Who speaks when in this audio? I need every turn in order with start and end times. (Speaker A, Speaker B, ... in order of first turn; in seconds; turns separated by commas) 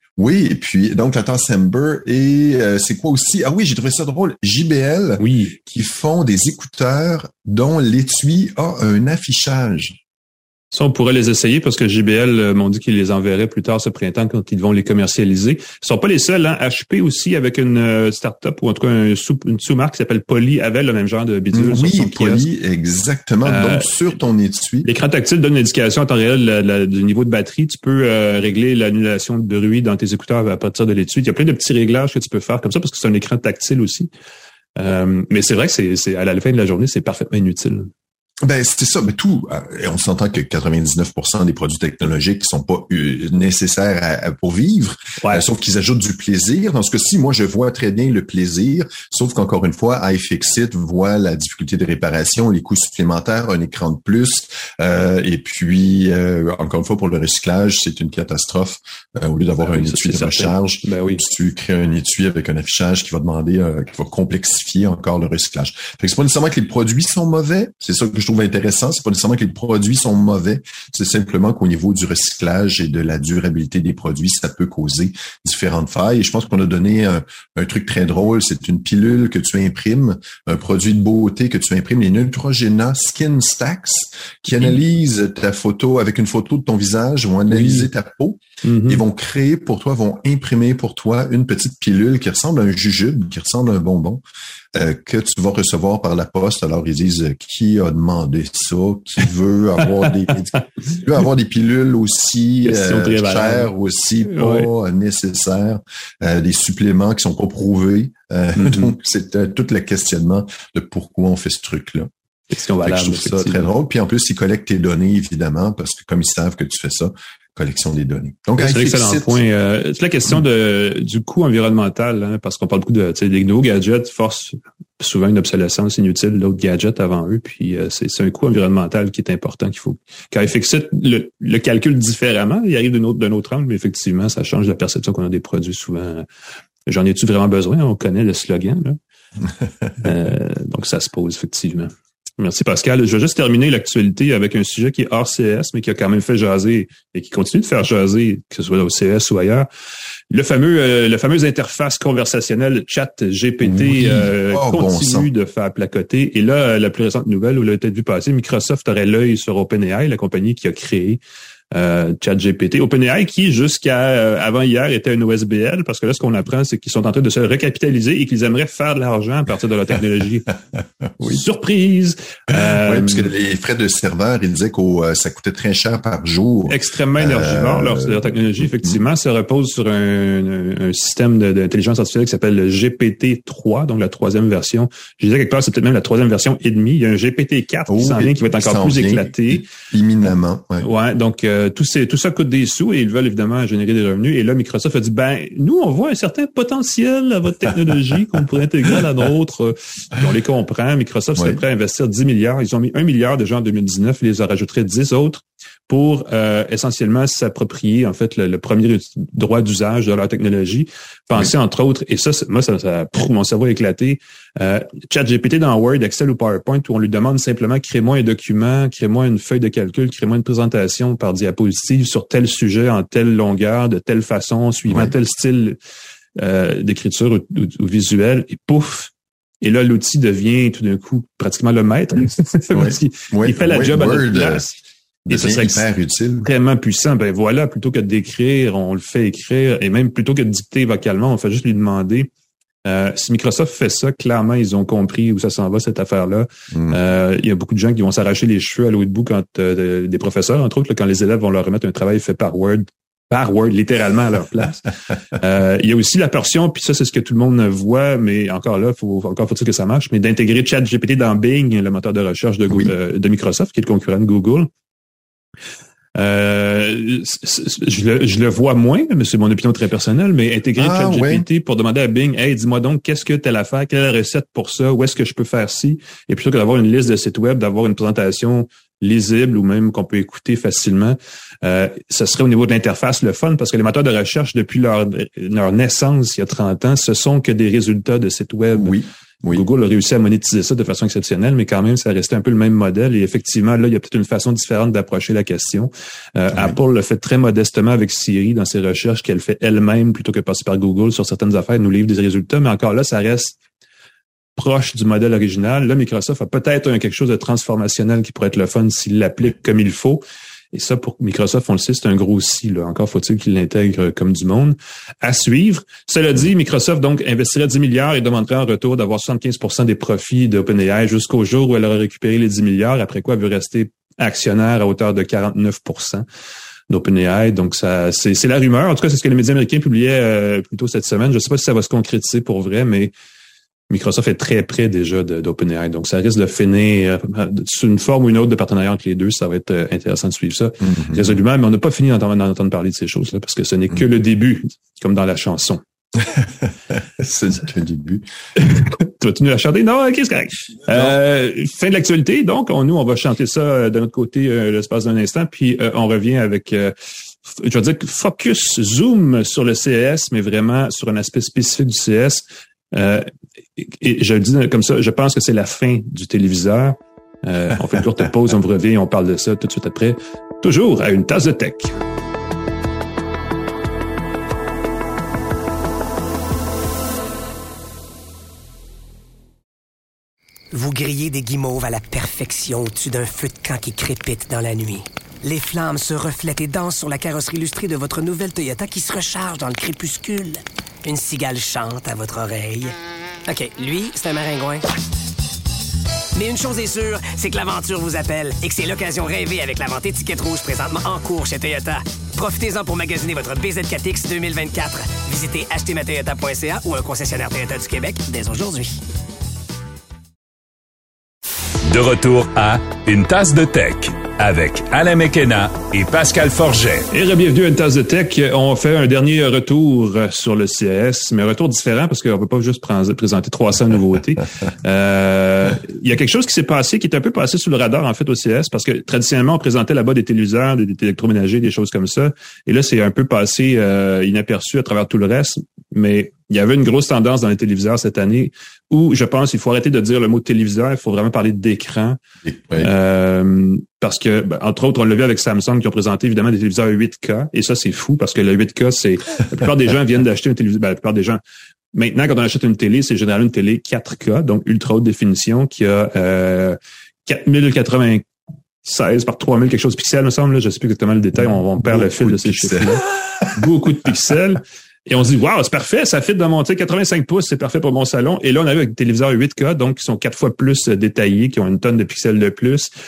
Speaker A: 0.2-10.0, Speaker B: 5.2-5.6, Speaker B: 10.7-22.4, Speaker A: 21.5-24.9, Speaker B: 23.4-23.9, Speaker B: 24.8-34.1, Speaker B: 34.8-37.9, Speaker A: 38.4-94.2, Speaker B: 59.6-61.2, Speaker B: 87.5-87.9, Speaker B: 88.6-89.0, Speaker A: 94.7-112.1, Speaker B: 100.3-100.6, Speaker B: 102.7-103.7, Speaker B: 104.2-104.7, Speaker B: 108.6-108.9, Speaker B: 112.5-113.7, Speaker A: 112.8-119.4, Speaker B: 118.6-136.2, Speaker B: 136.9-139.0, Speaker B: 140.0-149.7, Speaker B: 150.3-161.2, Speaker A: 153.6-155.3, Speaker B: 161.7-170.5, Speaker B: 171.2-173.3, Speaker A: 172.5-179.0, Speaker B: 176.7-189.7, Speaker A: 187.9-190.9, Speaker B: 190.8-225.8, Speaker A: 224.9-225.1, Speaker B: 226.4-229.1, Speaker B: 229.6-235.8, Speaker A: 232.7-234.6, Speaker A: 235.3-236.5, Speaker B: 236.4-242.3, Speaker B: 242.8-264.7, Speaker B: 266.1-303.6, Speaker A: 270.8-271.5, Speaker A: 288.8-289.6, Speaker B: 304.6-310.2, Speaker B: 310.7-326.2, Speaker B: 326.9-333.1, Speaker B: 333.9-345.8, Speaker A: 340.9-341.3, Speaker A: 346.1-348.3, Speaker B: 348.6-356.9, Speaker B: 357.5-371.9, Speaker C: 380.7-392.9, Speaker C: 393.5-394.9, Speaker C: 396.4-409.0, Speaker D: 411.9-417.1, Speaker B: 417.1-442.2, Speaker A: 442.4-442.9, Speaker B: 442.8-451.4, Speaker B: 451.9-458.2, Speaker B: 458.9-472.9, Speaker A: 461.8-463.6